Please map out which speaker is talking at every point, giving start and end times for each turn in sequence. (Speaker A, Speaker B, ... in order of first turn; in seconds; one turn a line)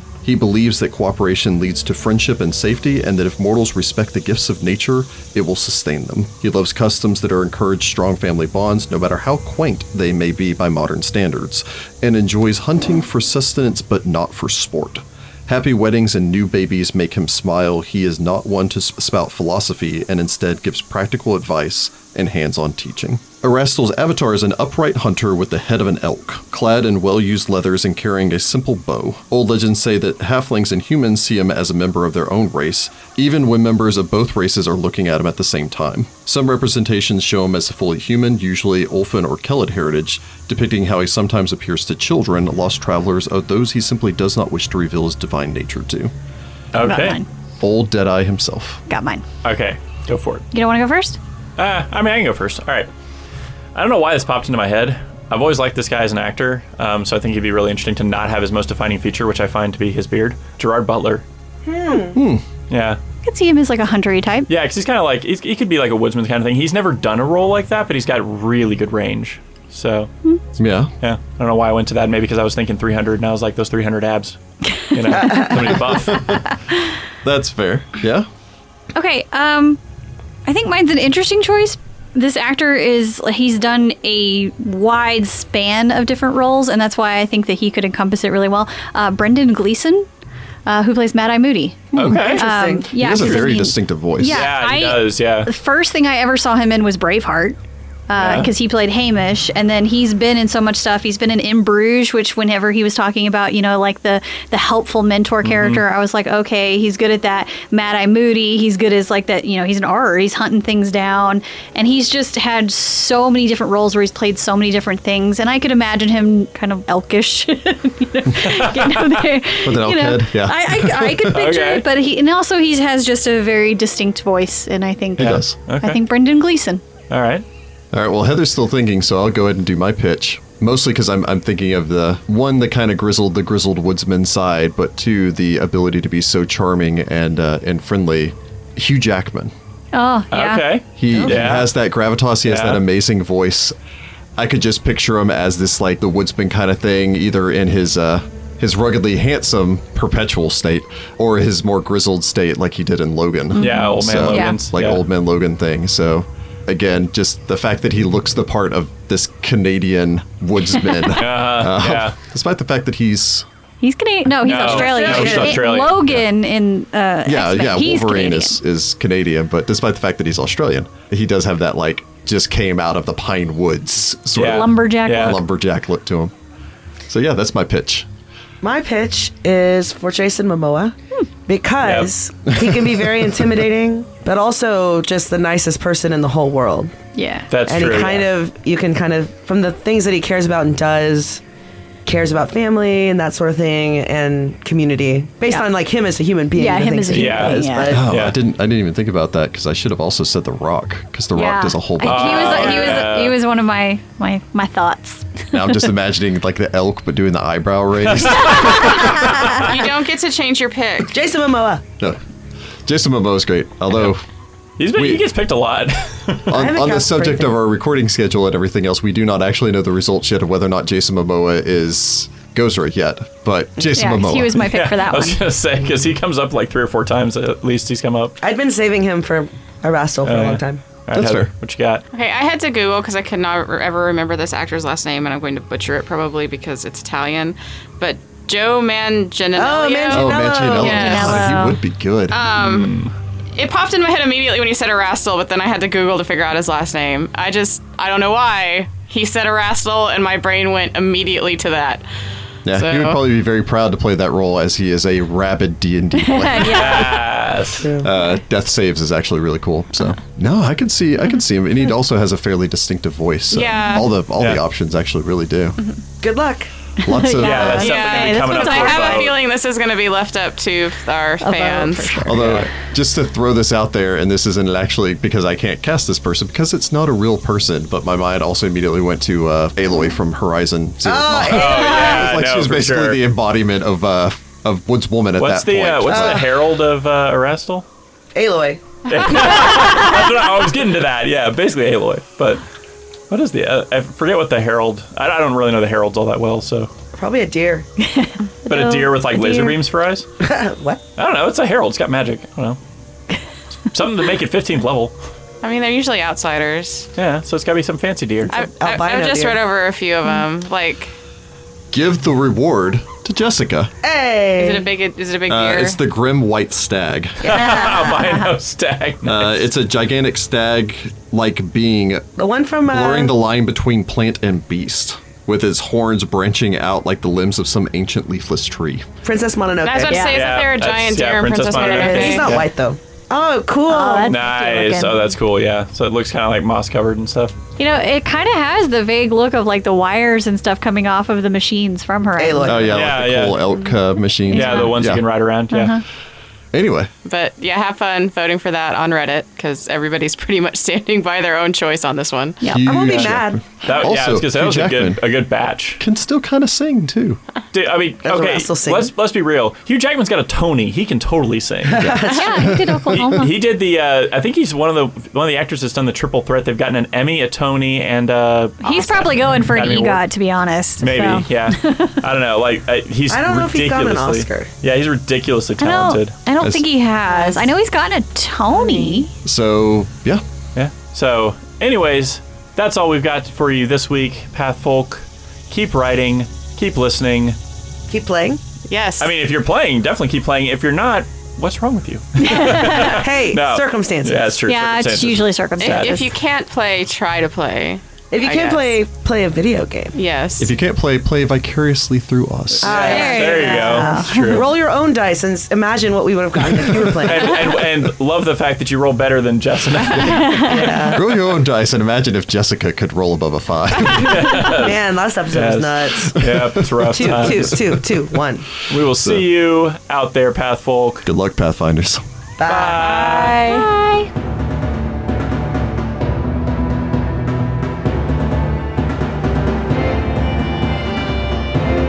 Speaker A: 0.2-46.1
Speaker B: 46.7-47.2
Speaker C: 46.8-47.2
Speaker A: 47.6-48.8
Speaker C: 48.9-49.2
Speaker B: 49.4-50.4
Speaker C: 50.5-51.2
Speaker B: 51.6-52.9
Speaker B: 53.7-61.2
Speaker D: 61.6-62.2
Speaker A: 62.1-62.4
Speaker B: 62.7-63.0
Speaker C: 63.2-64.5
Speaker B: 64.5-70.1
Speaker A: 70.6-70.9
Speaker B: 71.0-76.4
Speaker C: 74.7-75.6
Speaker A: 75.6-76.5
Speaker A: 77.2-78.3
Speaker C: 78.9-79.8
Speaker C: 80.4-90.1
Speaker C: 90.7-97.6
Speaker A: 91.9-92.4
Speaker B: 91.9-92.5
Speaker D: 92.3-93.3
Speaker A: 92.9-94.4
Speaker B: 94.2-95.5
Speaker C: 98.1-126.8
Speaker B: 98.2-98.5
Speaker B: 105.4-105.8
Speaker B: 118.4-119.2
Speaker A: 119.6-121.5
Speaker B: 121.3-121.8
Speaker A: 125.2-125.5
Speaker B: 125.2-126.0
Speaker B: 127.1-127.4
Speaker A: 127.9-139.5
Speaker C: 139.9-140.7
Speaker B: 140.3-141.7
Speaker A: 141.0-143.7
Speaker D: 141.1-141.6
Speaker B: 142.4-142.8
Speaker A: 144.4-163.4
Speaker C: 153.5-154.6
Speaker B: 153.6-155.0
Speaker B: 161.1-162.1
Speaker C: 163.8-168.6
Speaker B: 164.4-166.1
Speaker A: 164.5-166.2
Speaker D: 164.6-165.6
Speaker A: 167.2-176.3
Speaker B: 174.3-175.4
Speaker C: 174.4-175.4
Speaker A: 177.1-178.1
Speaker D: 178.6-180.9
Speaker D: 181.5-186.9
Speaker B: 181.8-182.1
Speaker C: 187.2-187.5
Speaker B: 187.5-188.3
Speaker D: 187.7-191.4
Speaker D: 192.1-198.0
Speaker C: 196.6-198.0
Speaker B: 197.1-198.3
Speaker A: 197.9-202.9
Speaker C: 201.3-205.9
Speaker B: 202.0-203.4
Speaker A: 205.5-209.4
Speaker B: 208.1-209.6
Speaker C: 208.6-209.5
Speaker E: 209.1-211.1
Speaker D: 211.1-211.8
Speaker A: 212.8-214.2
Speaker B: 214.8-216.6
Speaker A: 214.9-215.2
Speaker A: 216.5-224.7
Speaker D: 216.5-217.6
Speaker C: 223.9-225.4
Speaker B: 224.6-228.4
Speaker D: 228.4-230.8
Speaker B: 230.2-232.0
Speaker A: 231.1-231.5
Speaker E: 232.1-241.5
Speaker D: 239.6-241.4
Speaker A: 240.1-242.4
Speaker C: 240.7-241.8
Speaker E: 242.3-243.0
Speaker B: 242.6-243.1
Speaker E: 243.5-252.0
Speaker A: 252.6-257.2
Speaker E: 252.7-253.2
Speaker C: 256.2-257.2
Speaker B: 256.6-257.9
Speaker D: 257.8-258.1
Speaker A: 258.0-265.8
Speaker E: 263.5-264.1
Speaker B: 264.4-264.6
Speaker D: 266.2-266.7
Speaker C: 267.0-269.3
Speaker A: 267.0-268.0
Speaker E: 267.4-272.4
Speaker B: 267.4-269.4
Speaker C: 271.4-272.4
Speaker A: 272.2-286.5
Speaker B: 272.4-272.7
Speaker D: 281.0-282.4
Speaker B: 281.4-283.2
Speaker B: 285.4-287.8
Speaker D: 286.1-286.4
Speaker D: 288.3-288.8
Speaker B: 289.1-292.6
Speaker B: 293.3-296.9
Speaker D: 297.1-297.9
Speaker C: 298.0-299.8
Speaker B: 298.7-300.2
Speaker D: 300.4-301.0
Speaker B: 301.2-302.8
Speaker B: 303.9-305.1
Speaker E: 305.6-307.1
Speaker B: 307.2-308.6
Speaker E: 308.5-311.1
Speaker D: 308.5-309.6
Speaker A: 311.9-313.9
Speaker D: 314.0-314.9
Speaker E: 314.6-316.0
Speaker A: 315.5-317.5
Speaker B: 317.4-319.7
Speaker C: 317.5-318.5
Speaker A: 319.2-322.3
Speaker D: 322.4-323.3
Speaker A: 322.9-329.1
Speaker D: 329.2-330.3
Speaker E: 329.8-332.6
Speaker C: 330.0-330.5
Speaker B: 330.2-332.7
Speaker D: 331.7-334.3
Speaker C: 333.9-335.3
Speaker B: 334.3-337.6
Speaker C: 337.8-343.0
Speaker D: 342.4-342.9
Speaker A: 342.6-345.2
Speaker B: 342.9-343.6
Speaker B: 344.5-346.0
Speaker C: 344.5-345.0
Speaker C: 345.7-346.0
Speaker A: 346.7-347.1
Speaker E: 347.2-352.7
Speaker C: 352.6-352.9
Speaker A: 352.6-355.2
Speaker D: 352.8-353.6
Speaker B: 353.1-356.0
Speaker A: 356.0-357.4
Speaker B: 357.7-362.0
Speaker D: 358.2-359.1
Speaker D: 361.8-362.8
Speaker A: 361.9-363.4
Speaker C: 362.3-363.5
Speaker B: 363.1-370.2
Speaker C: 368.8-372.2
Speaker B: 371.0-376.3
Speaker D: 373.3-374.7
Speaker C: 375.8-379.3
Speaker A: 376.6-376.9
Speaker E: 378.8-379.2
Speaker A: 379.4-380.4
Speaker B: 380.8-387.6
Speaker D: 388.1-388.6
Speaker E: 388.9-389.3
Speaker B: 389.2-396.3
Speaker C: 392.4-393.2
Speaker D: 392.4-394.6
Speaker C: 394.6-396.3
Speaker E: 395.8-399.0
Speaker D: 398.3-400.1
Speaker E: 400.1-400.7
Speaker A: 400.6-403.2
Speaker B: 402.8-404.7
Speaker D: 402.8-407.7
Speaker C: 403.0-404.6
Speaker B: 407.2-411.0
Speaker C: 410.3-410.8
Speaker D: 410.6-411.3
Speaker A: 411.1-414.7
Speaker B: 414.1-418.0
Speaker D: 414.7-418.7
Speaker A: 416.4-417.9
Speaker B: 418.9-421.3
Speaker A: 419.0-419.4
Speaker A: 421.2-422.2
Speaker D: 422.6-423.2
Speaker B: 422.6-423.6
Speaker E: 422.9-423.9
Speaker C: 423.6-424.3